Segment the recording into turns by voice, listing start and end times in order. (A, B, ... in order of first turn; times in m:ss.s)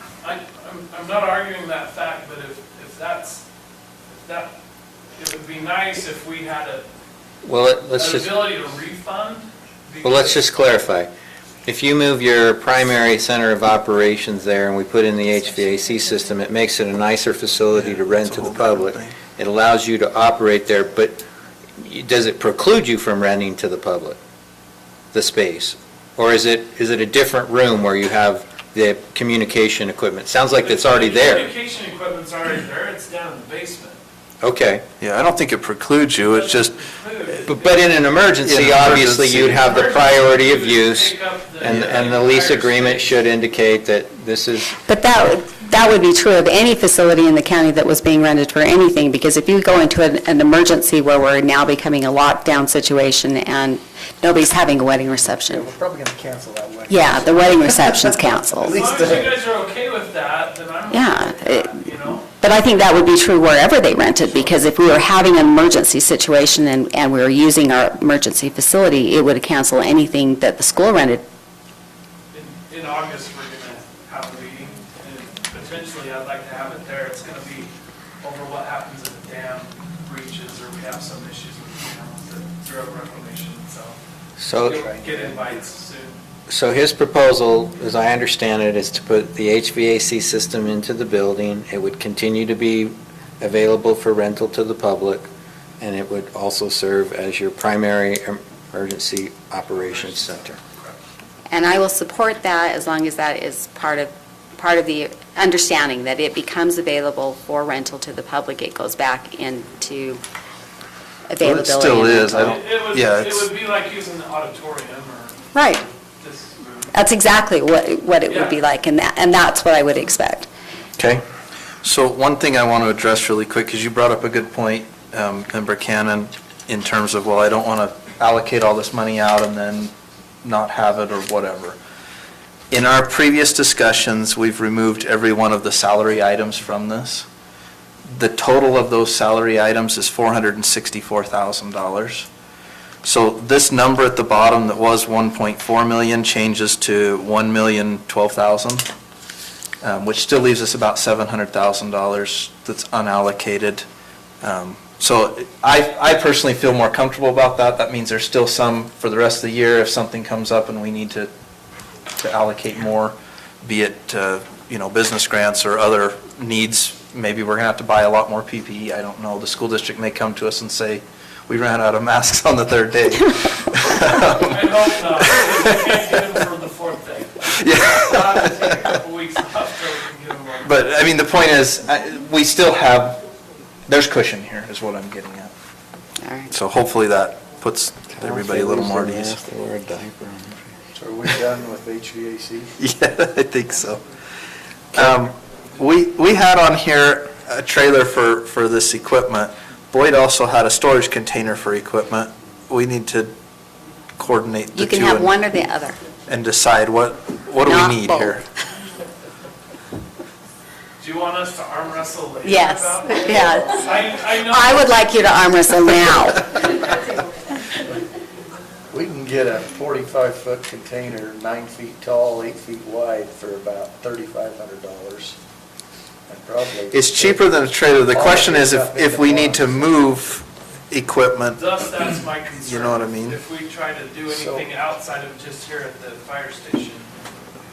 0:00.2-0:03.4 A
0:04.1-0:04.5 A
0:05.2-0:06.9 A
0:07.4-0:08.4 B
0:07.9-0:10.5 A
0:10.0-0:11.1 B
0:11.6-0:21.2 B
0:17.7-0:19.2 C
0:21.8-0:24.2 B
0:25.1-0:31.5 B
0:30.6-0:34.0 A
0:34.4-0:34.8 B
0:35.0-0:36.8 C
0:36.2-0:38.3 A
0:37.5-0:44.8 B
0:38.4-0:39.9 C
0:39.6-0:43.2 A
0:41.7-0:42.1 C
0:44.7-0:55.7 D
0:55.2-0:59.4 E
0:56.9-0:58.9 D
0:58.6-1:02.3 A
1:00.9-1:01.8 D
1:02.4-1:11.2 D
1:04.1-1:04.7 A
1:12.3-1:24.0 A
1:24.4-1:24.9 B
1:24.6-1:26.2 A
1:24.6-1:25.6 E
1:26.5-1:35.3 B
1:35.8-1:40.6 B
1:39.7-1:41.0 A
1:41.5-1:50.2 D
1:51.3-1:52.6 D
1:51.4-1:53.5 C
1:52.3-1:56.9 A
1:55.5-1:55.8 D
1:56.9-2:00.5 D
1:58.3-1:58.6 A
2:01.0-2:01.2 C
2:01.8-2:09.9 C
2:10.4-2:11.8 C
2:12.7-2:17.3 C
2:18.1-2:22.3 C
2:23.0-2:28.9 C
2:29.8-2:33.8 C
2:34.4-2:41.3 C
2:42.2-2:55.6 C
2:54.5-3:01.0 A
2:57.5-2:58.9 C
3:00.6-3:03.2 C
3:03.9-3:05.5 C
3:06.2-3:06.5 D
3:06.5-3:09.4 C
3:08.1-3:10.8 B
3:11.0-3:12.8 E
3:12.8-3:14.0 C
3:14.9-3:23.3 C
3:24.2-3:25.4 C
3:24.7-3:26.0 D
3:26.3-3:28.4 C
3:27.6-3:28.4 D
3:31.0-3:34.9 A
3:32.4-3:36.6 D
3:38.9-3:45.4 E
3:46.3-3:47.5 E
3:46.9-3:51.7 C
3:48.1-3:50.1 E
3:51.6-3:57.1 A
3:52.6-3:53.4 C
3:54.3-3:54.7 E